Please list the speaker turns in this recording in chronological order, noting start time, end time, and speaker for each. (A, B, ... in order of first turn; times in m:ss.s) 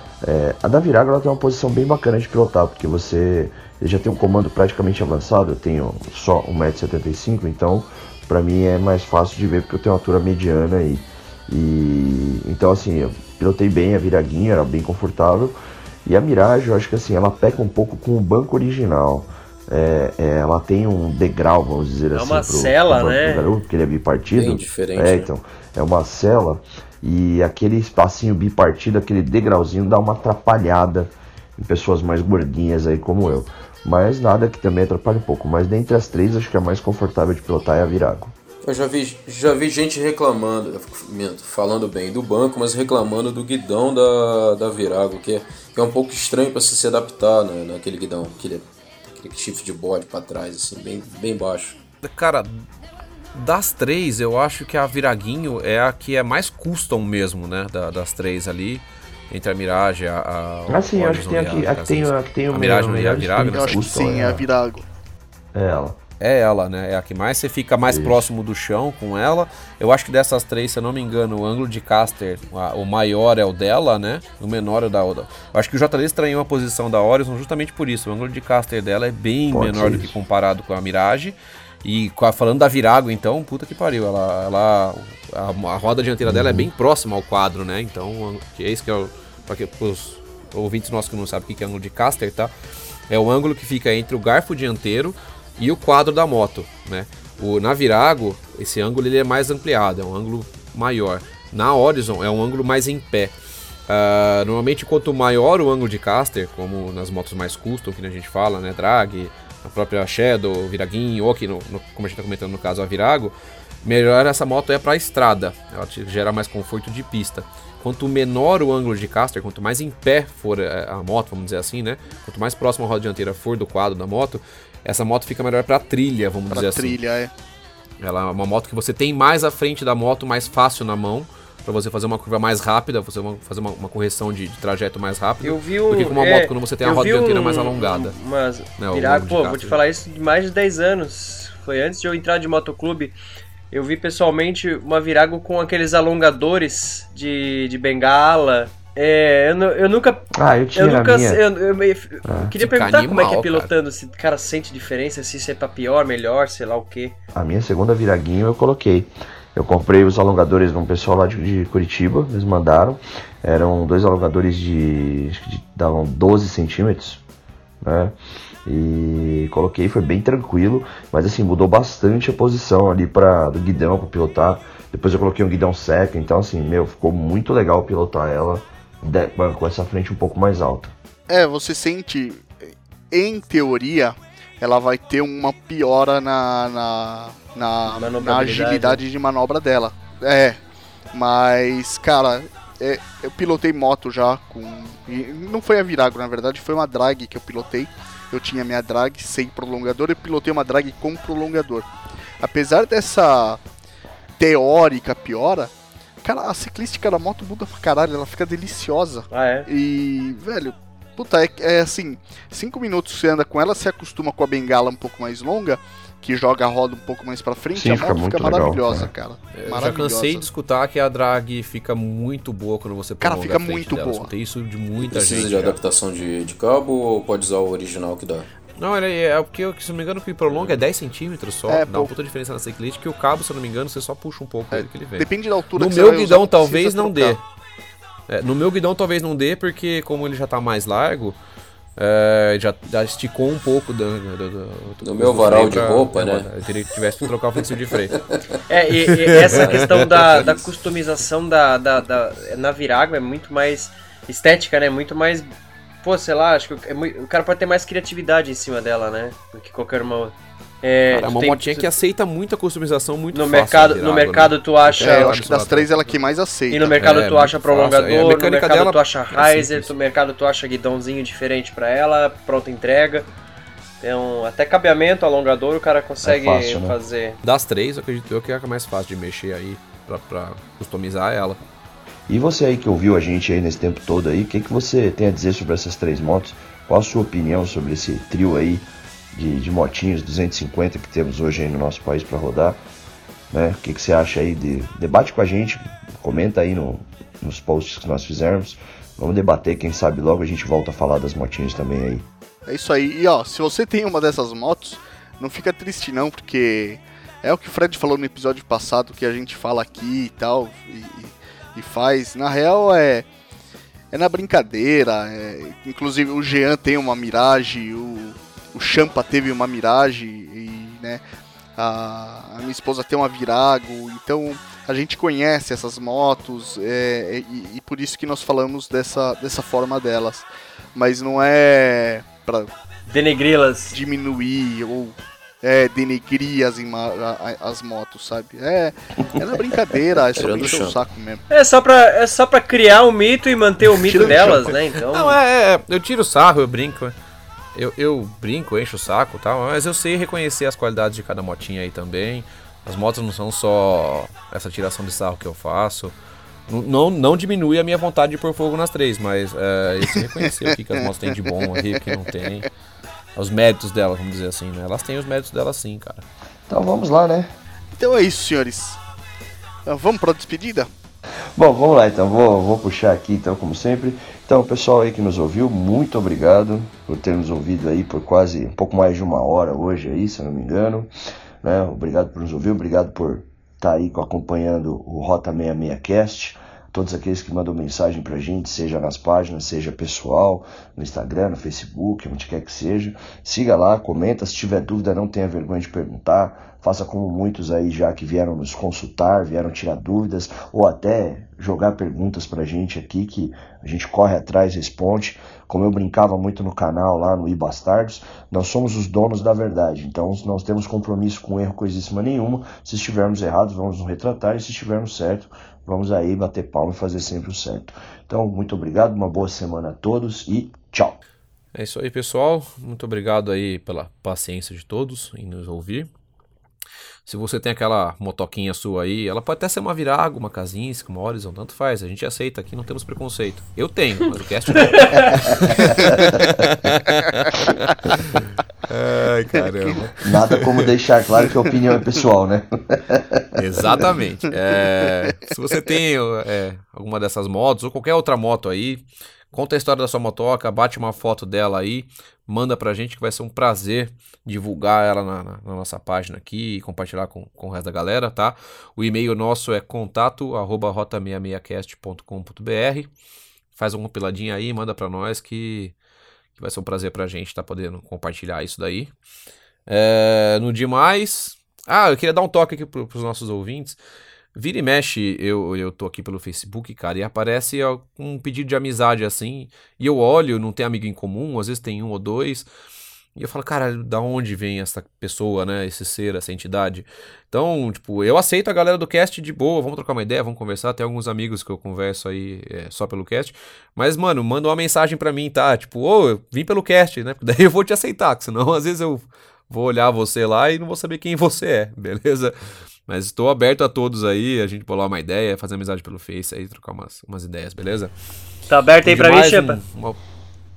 0:00.2-0:38.3 A
0:22.1-0:23.5 B
0:24.3-0:25.3 C
0:38.6-0:51.8 C
0:52.0-0:52.6 D
0:53.3-1:04.2 D
1:00.7-1:04.5 A
1:03.4-1:04.9 E
1:05.5-1:06.0 A
1:06.2-1:32.5 D
1:07.8-1:08.3 A
1:19.5-1:20.2 A
1:26.2-1:26.7 A
1:33.1-1:43.3 D
1:43.9-2:07.0 D
2:06.5-2:07.3 E
2:08.0-2:18.1 D
2:15.4-2:23.1 B
2:18.8-2:19.8 D
2:23.7-2:37.2 B
2:30.3-2:31.4 A
2:32.2-2:32.5 A
2:32.6-2:33.7 D
2:37.3-2:47.2 A
2:47.8-2:48.1 A
2:48.6-3:00.9 A
3:01.3-3:10.6 E
3:07.9-3:09.0 B
3:11.1-3:21.9 E
3:22.4-3:23.6 E
3:24.4-3:25.7 E
3:26.2-3:40.4 E
3:29.3-3:29.7 B
3:37.7-3:39.1 A
3:39.5-3:45.8 D
3:43.2-3:44.3 E
3:45.0-3:48.5 C
3:48.8-3:57.4 D
3:50.5-3:50.8 C
3:51.7-3:52.1 E
3:54.7-3:57.4 E
3:58.3-4:01.4 D
4:02.0-4:08.2 D
4:05.0-4:06.5 C
4:07.7-4:08.4 C
4:08.7-4:15.5 B
4:09.2-4:10.6 D
4:16.0-4:21.9 B
4:21.1-4:25.9 D
4:23.3-4:25.3 B
4:25.0-4:27.0 E
4:26.7-4:33.3 B
4:27.0-4:29.9 D
4:34.0-4:37.4 B
4:36.2-4:37.0 A
4:37.4-4:41.6 D
4:42.3-4:52.8 A
4:53.5-5:02.3 A
5:02.6-5:13.3 E
5:14.1-5:21.2 E
5:21.8-5:32.7 E
5:33.1-5:34.0 B
5:33.9-5:41.4 E
5:40.3-5:41.0 C
5:41.5-5:45.4 B
5:44.0-5:44.7 E
5:44.2-5:47.1 D
5:47.7-5:56.1 D
5:56.7-6:02.7 D
6:02.1-6:02.4 E
6:03.4-6:06.3 D
6:06.7-6:07.5 A
6:08.0-6:09.0 E
6:09.9-6:10.9 E
6:11.6-6:21.1 A
6:21.6-7:01.2 A
7:01.7-7:06.1 D
7:07.3-7:20.9 D
7:14.8-7:15.4 B
7:16.0-7:16.6 A
7:20.2-7:23.8 A
7:23.6-7:43.1 D
7:43.7-7:46.0 D
7:46.6-7:49.1 D
7:49.9-7:54.0 D
7:54.6-8:02.7 D
8:03.4-8:22.6 D
8:23.1-8:28.1 D
8:28.7-8:29.8 B
8:29.0-8:30.2 D